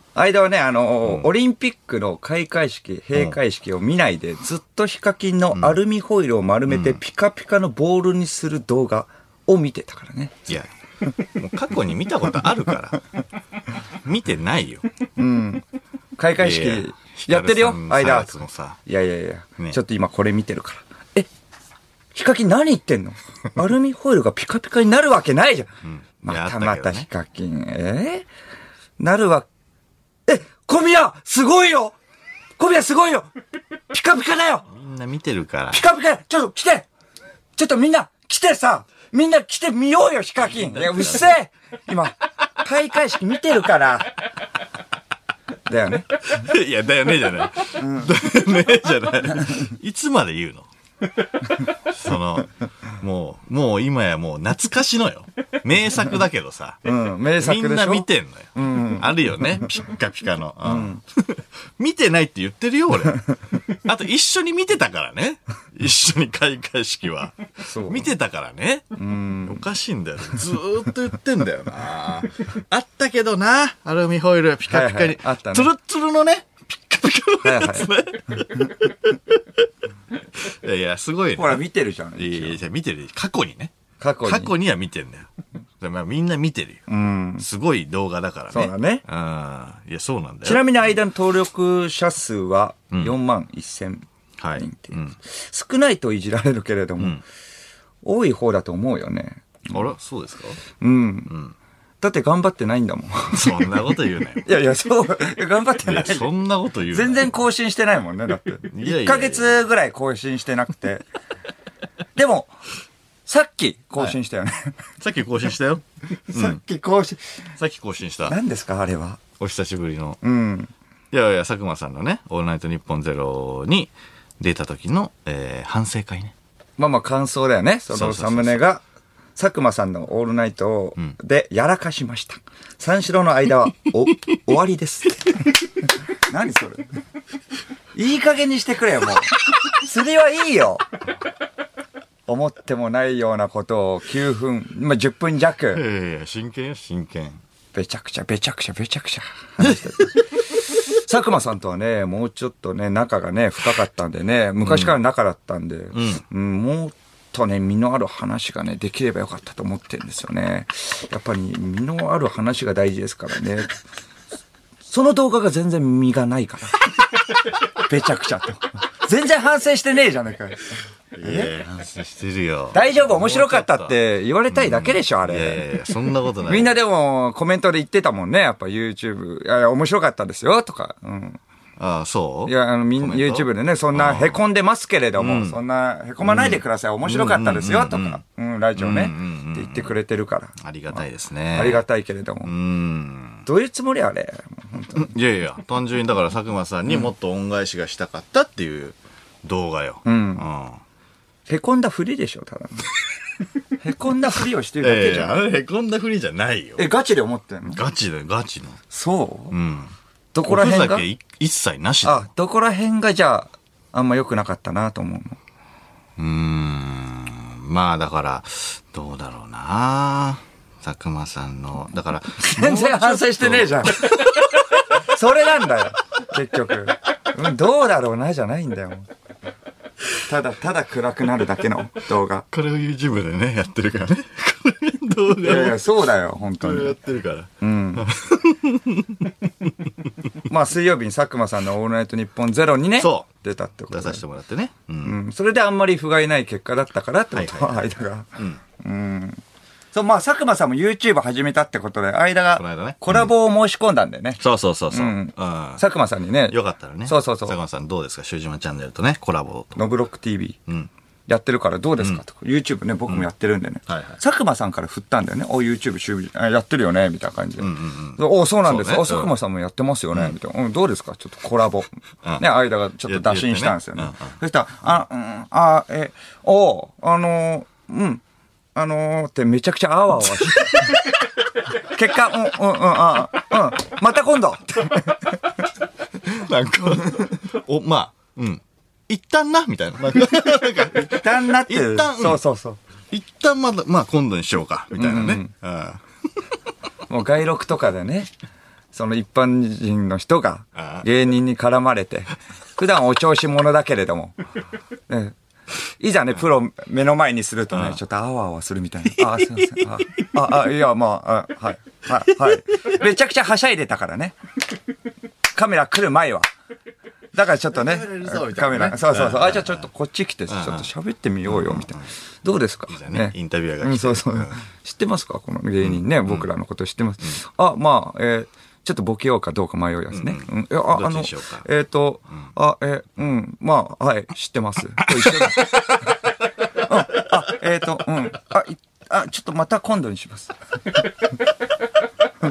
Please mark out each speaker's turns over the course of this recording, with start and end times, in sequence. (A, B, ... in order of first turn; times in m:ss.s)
0:00.1-0:10.5 A
0:01.0-0:01.3 B
0:06.7-0:07.0 B
0:11.2-0:13.0 B
0:14.0-0:14.9 B
0:15.2-0:15.6 A
0:16.2-0:21.3 A
0:16.4-0:18.8 B
0:22.1-0:25.7 A
0:25.8-0:27.1 B
0:26.2-0:28.3 A
0:29.0-0:29.5 A
0:30.3-0:32.0 A
0:32.6-0:33.3 A
0:33.9-0:34.7 A
0:34.7-0:35.8 B
0:35.7-0:36.9 A
0:37.6-0:44.1 A
0:40.4-0:41.3 B
0:45.7-0:46.2 A
0:46.2-0:50.7 B
0:47.8-0:48.1 A
0:51.8-0:56.8 B
0:56.8-0:59.1 A
0:57.4-1:19.4 B
1:00.6-1:01.0 A
1:07.7-1:08.1 A
1:09.0-1:09.6 A
1:14.7-1:15.7 A
1:17.4-1:17.9 A
1:20.4-1:21.6 B
1:21.4-1:22.6 A
1:22.2-1:23.7 B
1:24.0-1:24.5 A
1:24.2-1:25.3 B
1:25.8-1:26.8 B
1:26.9-1:27.4 A
1:27.4-1:30.7 B
1:28.5-1:29.0 A
1:30.4-1:34.0 A
1:34.4-1:35.2 B
1:34.6-1:37.2 A
1:38.0-1:39.4 A
1:39.7-1:40.6 B
1:40.8-1:41.3 A
1:42.0-1:43.7 A
1:43.3-1:44.5 B
1:44.4-1:46.3 A
1:45.8-1:47.3 B
1:46.9-1:51.0 A
1:48.7-1:49.6 B
1:52.2-1:52.5 A
1:53.2-1:54.8 A
1:55.0-1:56.6 B
1:56.3-1:57.2 A
1:57.6-1:58.4 B
1:58.3-1:59.2 A
1:59.4-2:00.2 B
2:00.2-2:00.7 A
2:01.1-2:06.3 B
2:06.8-2:08.8 A
2:07.9-2:08.6 B
2:09.4-2:15.5 A
2:16.2-2:16.8 A
2:17.9-2:20.8 A
2:22.3-2:25.8 A
2:25.7-2:27.4 B
2:27.7-2:43.8 A
2:34.6-2:34.9 B
2:35.9-2:36.2 B
2:44.8-2:46.9 A
2:47.7-2:50.7 A
2:51.2-2:53.9 B
2:51.2-2:51.5 A
2:52.7-2:55.7 A
2:54.5-2:56.8 B
2:56.4-3:01.4 A
3:01.8-3:04.4 B
3:02.4-3:11.0 A
3:05.2-3:05.6 B
3:06.2-3:08.2 B
3:08.8-3:09.9 B
3:10.6-3:11.8 B
3:11.5-3:12.5 A
3:12.4-3:13.4 B
3:13.4-3:15.1 A
3:14.9-3:20.8 B
3:20.0-3:20.4 A
3:21.5-3:22.9 A
3:23.8-3:25.4 A
3:24.8-3:26.8 B
3:26.8-3:27.8 A
3:27.7-3:28.8 B
3:28.9-3:29.5 A
3:29.5-3:29.9 B
3:30.3-3:31.0 A
3:30.4-3:32.3 B
3:32.0-3:35.4 A
3:36.2-3:44.1 B
3:42.4-3:49.1 A
3:50.3-3:52.4 A
3:52.5-3:56.0 B
3:55.4-3:57.0 A
3:56.6-3:59.7 B
3:57.6-3:58.1 A
4:00.4-4:04.2 A
4:03.0-4:03.2 B
4:03.9-4:05.2 B
4:05.0-4:09.4 A
4:07.3-4:08.6 B
4:09.9-4:14.4 A
4:12.6-4:13.3 B
4:14.4-4:15.8 B
4:14.9-4:17.6 A
4:16.5-4:19.8 B
4:19.8-4:20.6 A
4:21.3-4:38.2 A
4:23.9-4:24.2 B
4:27.6-4:29.3 B
4:33.0-4:34.4 B
4:38.7-4:41.1 A
4:41.8-4:45.4 A
4:46.2-4:52.4 B
4:50.9-4:52.8 A
4:53.1-4:56.0 B
4:55.0-4:55.5 A
4:57.1-4:58.3 A
4:58.9-5:04.4 A
5:00.8-5:01.0 B
5:05.1-5:05.4 A
5:06.0-5:14.4 A
5:15.5-5:16.5 A
5:17.3-5:36.1 A
5:17.7-5:19.9 B
5:20.5-5:20.9 B
5:21.5-5:22.1 B
5:22.9-5:24.6 B
5:25.8-5:26.4 B
5:30.1-5:31.6 B
5:35.2-5:36.0 B
5:36.7-5:40.5 A